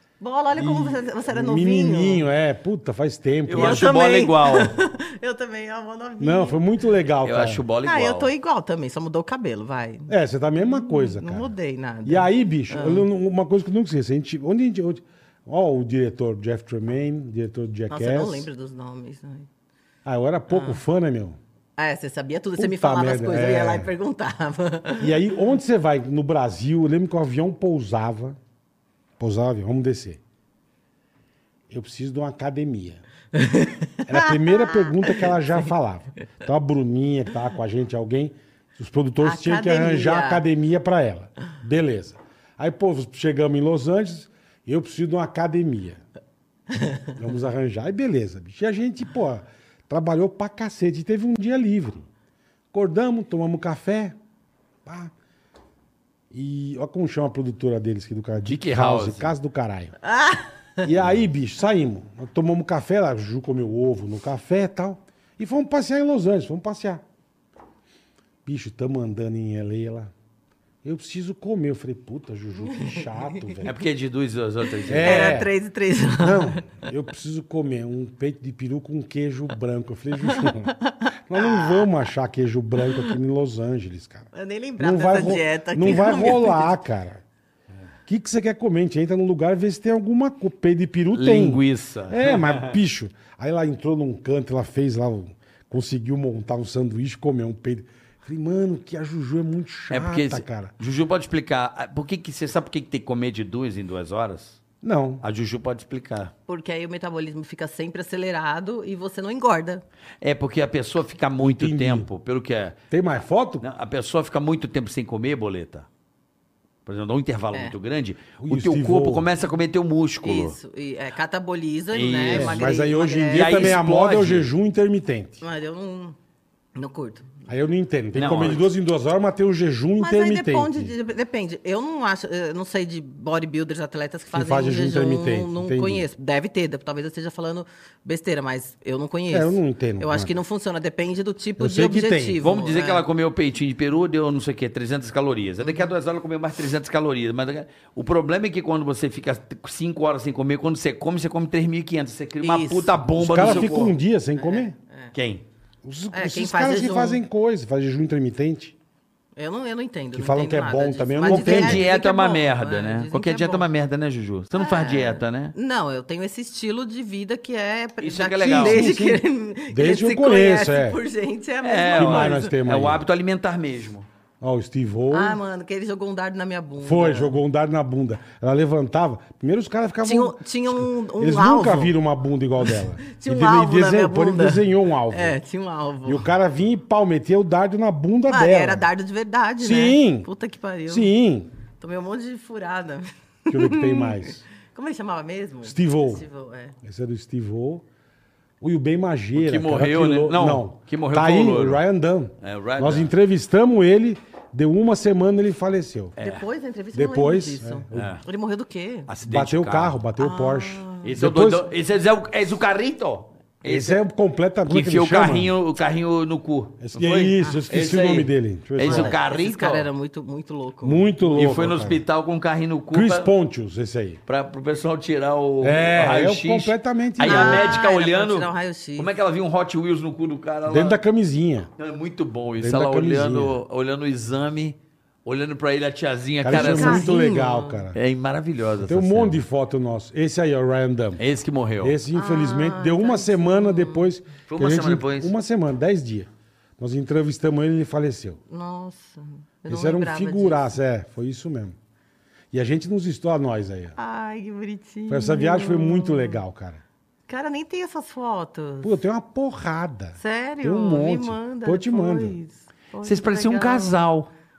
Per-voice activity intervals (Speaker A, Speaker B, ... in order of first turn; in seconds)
Speaker A: 0.2-2.2, 3.5-6.6, 7.8-13.1, 17.9-19.5, 20.5-20.8, 21.8-25.1, 33.3-35.3, 39.2-40.4, 46.8-47.1, 60.0-60.8, 72.7-73.5, 75.0-76.7, 80.2-81.9, 82.8-83.1, 84.3-86.8, 106.5-109.8, 120.2-123.8, 125.4-126.2, 126.8-127.3, 130.0-143.0, 145.6-145.9, 152.4-153.7, 154.3-155.1, 156.1-157.2, 159.3-163.7, 164.6-172.6, 175.1-177.3, 180.0-181.9, 182.6-186.2, 188.3-191.1, 191.8-196.8, 206.2-209.1, 210.2-211.2, 217.4-217.7, 218.8-221.1, 227.2-229.1, 236.5-237.8, 242.1-244.1, 248.5-250.8, 253.9-256.4, 257.3-259.0, 260.2-264.0
Speaker B: 0.6-3.9, 6.2-7.6, 10.1-11.5, 12.0-18.5, 20.0-21.4, 22.6-23.9, 25.0-28.4, 29.2-30.2, 31.7-33.0, 34.1-46.0, 47.1-52.0, 52.7-54.1, 54.9-55.1, 56.3-59.9, 60.8-67.0, 68.4-70.1, 70.8-73.7, 74.9-75.5, 76.2-80.7, 81.3-84.3, 84.8-87.2, 88.1-100.7, 104.8-105.2, 111.4-112.1, 112.9-113.6, 118.4-119.3, 122.3-125.4, 127.5-130.9, 134.3-136.1, 139.3-140.3, 141.6-142.4, 153.2-154.7, 155.8-158.7, 160.1-161.9, 168.4-171.0, 171.9-173.0, 174.4-175.4, 176.8-185.4, 186.0-188.9, 189.6-190.3, 190.9-191.5, 193.5-194.4, 195.6-196.2, 196.8-197.8, 198.6-206.2, 206.9-208.1, 209.2-211.6, 213.6-215.5, 216.8-219.2, 220.8-222.0, 222.9-224.2, 225.6-227.8, 230.7-231.7, 232.6-233.6, 236.4-238.0, 238.8-241.2, 241.8-248.4, 249.7-251.8, 252.5-253.9, 255.1-256.8, 258.8-262.4
Speaker C: 3.5-4.8, 7.2-8.3, 58.4-59.3, 73.6-75.3, 91.1-92.8, 99.9-104.6, 105.2-106.3, 110.2-112.8, 113.6-115.9, 116.8-120.5, 121.9-122.7, 123.3-124.5, 128.1-128.7, 142.4-153.9, 155.1-155.4, 161.3-165.5, 168.0-168.9, 171.6-174.1, 199.3-201.8, 202.4-203.1, 206.2-206.4, 207.9-208.2, 209.1-210.0, 211.0-214.0, 214.7-219.9, 221.2-223.3, 224.3-231.0, 231.8-237.1, 237.9-239.4, 241.2-241.9, 244.5-245.3, 263.0-264.3